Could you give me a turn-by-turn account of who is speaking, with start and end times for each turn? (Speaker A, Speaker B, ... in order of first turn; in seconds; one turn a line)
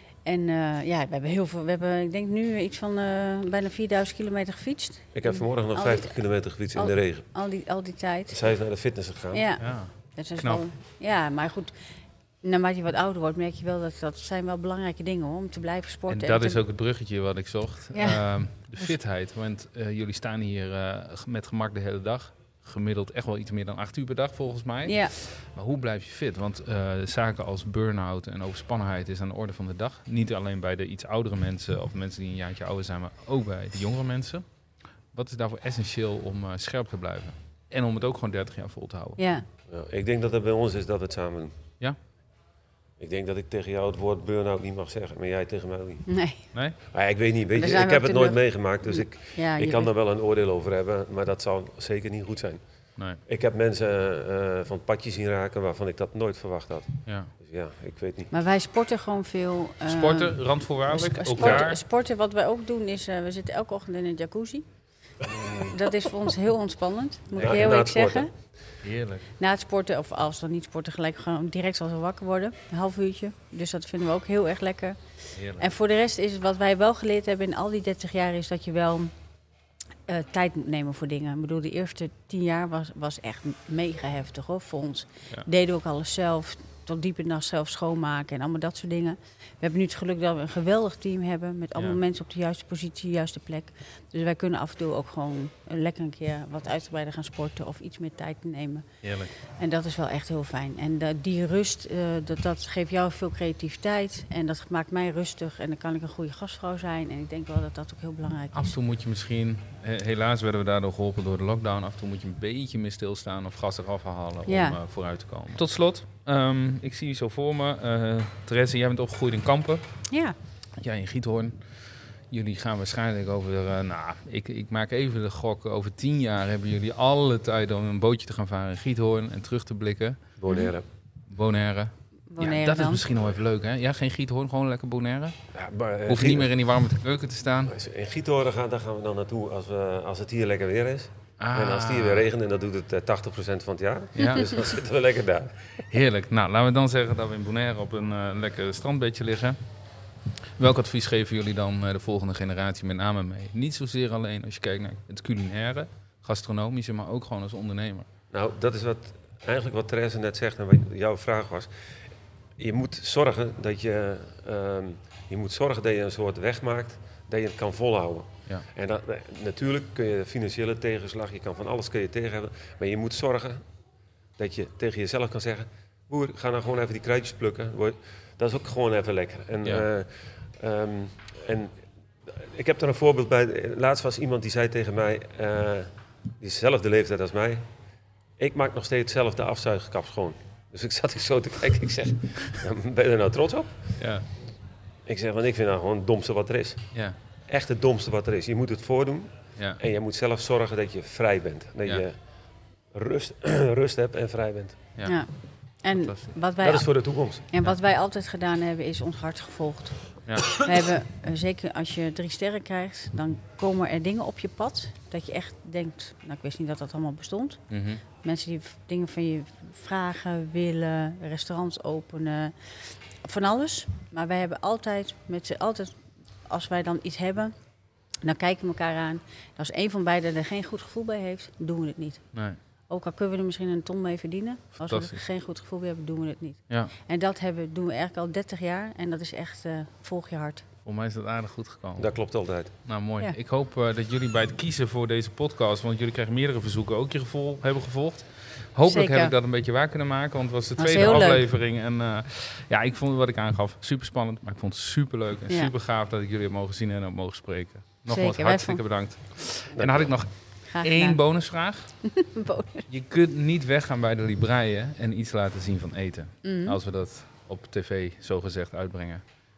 Speaker A: 0.2-8.5
Speaker B: 5.1-7.2
Speaker B: 8.3-9.4
Speaker A: 9.3-11.8
Speaker C: 9.6-10.7
Speaker A: 12.4-16.6
Speaker C: 16.1-34.5
Speaker A: 17.9-18.9
Speaker A: 24.9-25.1
Speaker C: 35.1-39.2
Speaker A: 39.2-39.5
Speaker B: 39.7-41.6
Speaker B: 43.0-46.2
Speaker A: 46.1-46.5
Speaker B: 46.9-58.3
Speaker A: 47.5-49.9
Speaker C: 57.1-57.3
Speaker A: 58.3-64.7
Speaker C: 59.9-61.8
Speaker B: 61.4-61.6
Speaker B: 65.2-66.0
Speaker A: 65.4-68.3
Speaker B: 67.4-68.3
Speaker C: 68.8-69.3
Speaker A: 69.4-79.1
Speaker C: 75.3-75.7
Speaker A: 80.1-98.9
Speaker C: 99.0-99.3
Speaker A: 99.4-108.8
Speaker C: 108.5-120.1
Speaker A: 114.5-114.8
Speaker A: 120.1-120.4
Speaker C: 120.8-130.2
Speaker B: 130.4-130.8
Speaker A: 130.5-130.7
Speaker C: 131.3-135.4
Speaker A: 132.3-133.0
Speaker B: 135.5-136.5
Speaker C: 136.1-137.7
Speaker B: 137.7-145.6
Speaker C: 141.4-142.3
Speaker C: 144.2-144.5
Speaker C: 145.9-149.6
Speaker C: 150.6-158.1
Speaker B: 158.3-162.0
Speaker B: 162.6-173.6
Speaker B: 174.4-187.7
Speaker B: 188.4-194.0
Speaker C: 194.0-194.2
Speaker B: 195.1-202.2
Speaker B: 202.9-204.8
Speaker C: 205.0-205.2
Speaker A: 205.1-227.6
Speaker C: 205.8-206.3
Speaker B: 206.6-207.5
Speaker C: 210.2-210.6
Speaker C: 217.7-218.0
Speaker A: 228.2-240.7
Speaker C: 232.3-232.6
Speaker C: 234.8-235.2
Speaker C: 240.8-262.2
Speaker B: 242.0-242.8
Speaker A: 248.8-249.3
Speaker A: 250.8-251.4
Speaker A: 258.1-258.8
Speaker B: 259.7-260.1
Speaker A: 260.6-261.2
Speaker A: 262.0-262.9
Speaker C: 262.9-269.2
Speaker A: 266.4-266.8